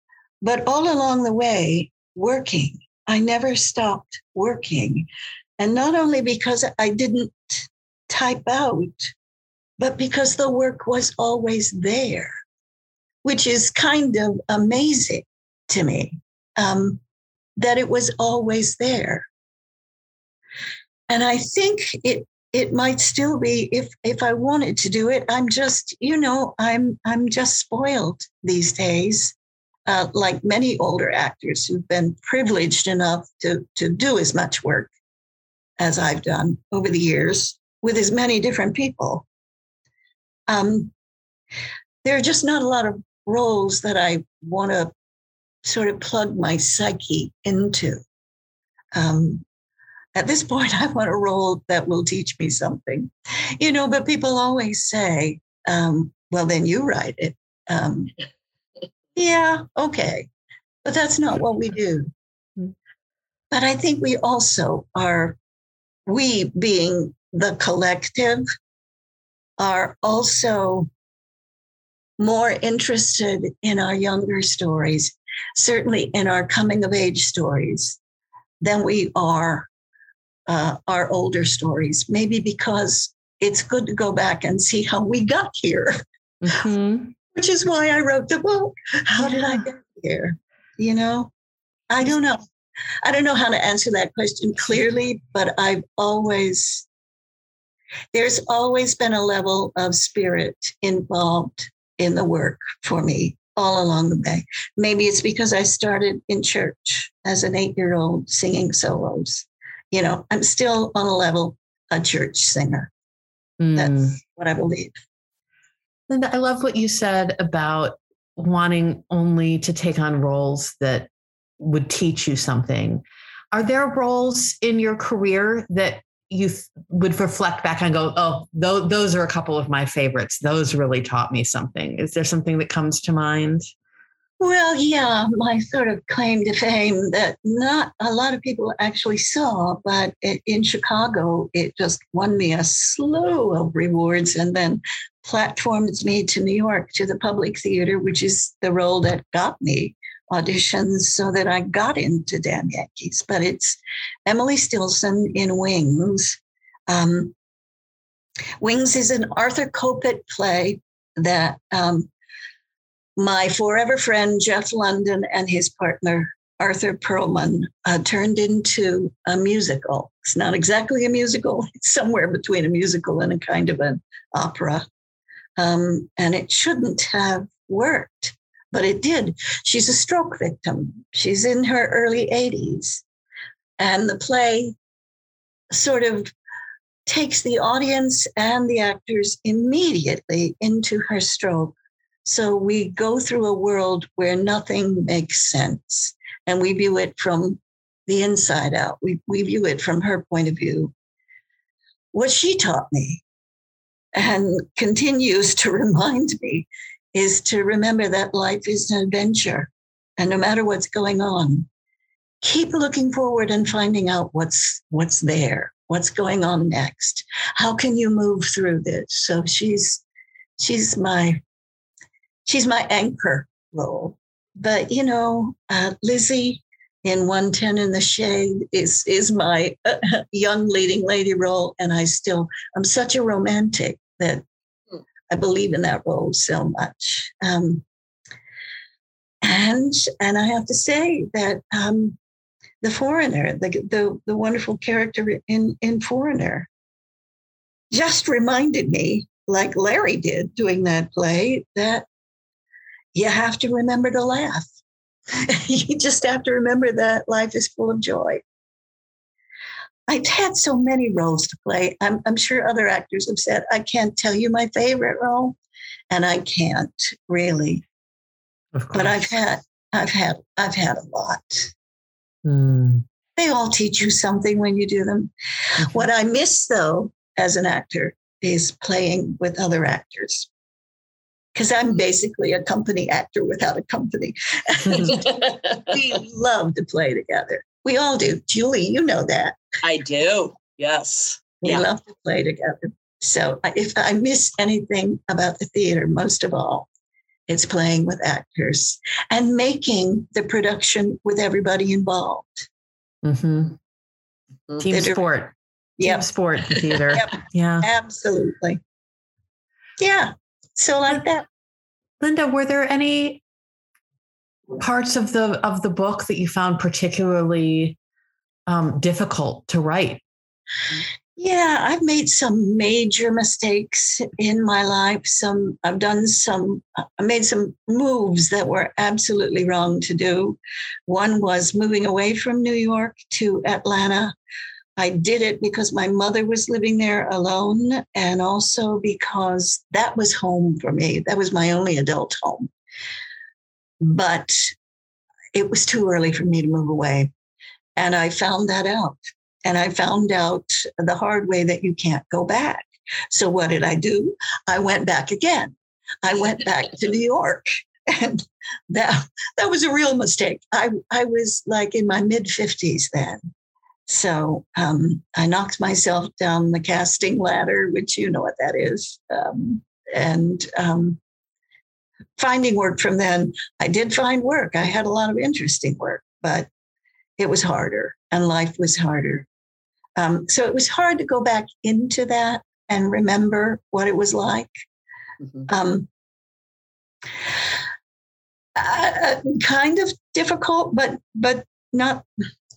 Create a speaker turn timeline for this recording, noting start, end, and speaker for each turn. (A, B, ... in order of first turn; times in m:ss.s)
0:00.4-0:05.1 A
0:05.6-0:09.1 A
0:09.8-0:12.4 A
0:13.2-0:17.0 A
0:17.6-0:19.3 A
0:21.1-0:29.4 A
0:29.9-0:34.9 A
0:35.8-0:39.3 A
0:40.5-0:40.9 A
0:42.0-0:44.9 A
0:45.6-0:48.0 A
0:49.0-0:49.4 A
0:50.2-0:58.1 A
0:59.2-1:00.3 A
1:00.8-1:02.1 A
1:03.5-1:05.4 A
1:06.1-1:08.4 A
1:09.6-1:10.9 A
1:12.2-1:18.0 A
1:18.6-1:19.7 A
1:20.5-1:26.0 A
1:26.4-1:27.1 B
1:27.3-1:31.3 A
1:31.9-1:32.4 A
1:33.0-1:36.9 A
1:38.1-1:52.9 A
1:53.6-1:54.1 B
1:53.7-1:55.0 A
1:56.1-2:13.7 B
2:14.4-2:37.4 A
2:38.6-2:42.1 A
2:43.2-2:54.9 A
2:55.6-3:03.0 A
3:03.8-3:04.8 A
3:05.7-3:06.3 A
3:07.1-3:20.9 A
3:22.1-3:23.2 A
3:24.1-3:31.7 A
3:32.4-3:40.0 A
3:40.6-3:41.4 A
3:42.5-3:54.4 A
3:55.3-3:57.8 A
3:59.4-4:02.2 A
4:02.8-4:06.7 A
4:07.9-4:12.1 A
4:13.1-4:14.7 A
4:15.3-4:18.4 A
4:20.1-4:25.6 A
4:26.1-4:27.8 A
4:28.7-4:29.3 B
4:28.9-4:31.7 A
4:32.4-4:33.0 B
4:33.4-4:40.5 A
4:41.6-4:49.6 A
4:49.8-4:51.8 C
4:51.6-4:56.9 A
4:57.5-5:02.7 A
5:03.2-5:03.8 B
5:04.8-5:07.9 B
5:04.9-5:05.2 A
5:06.0-5:06.3 A
5:07.1-5:08.8 A
5:10.0-5:11.5 A
5:12.2-5:13.4 B
5:14.8-5:18.0 B
5:18.7-5:20.2 B
5:21.4-5:34.3 A
5:35.0-5:42.7 A
5:44.0-5:44.7 A
5:45.5-5:47.3 A
5:48.0-6:03.4 A
6:04.1-6:11.2 A
6:12.4-6:16.7 A
6:17.4-6:19.5 A
6:20.2-6:24.7 A
6:25.7-6:26.1 A
6:28.8-6:32.3 A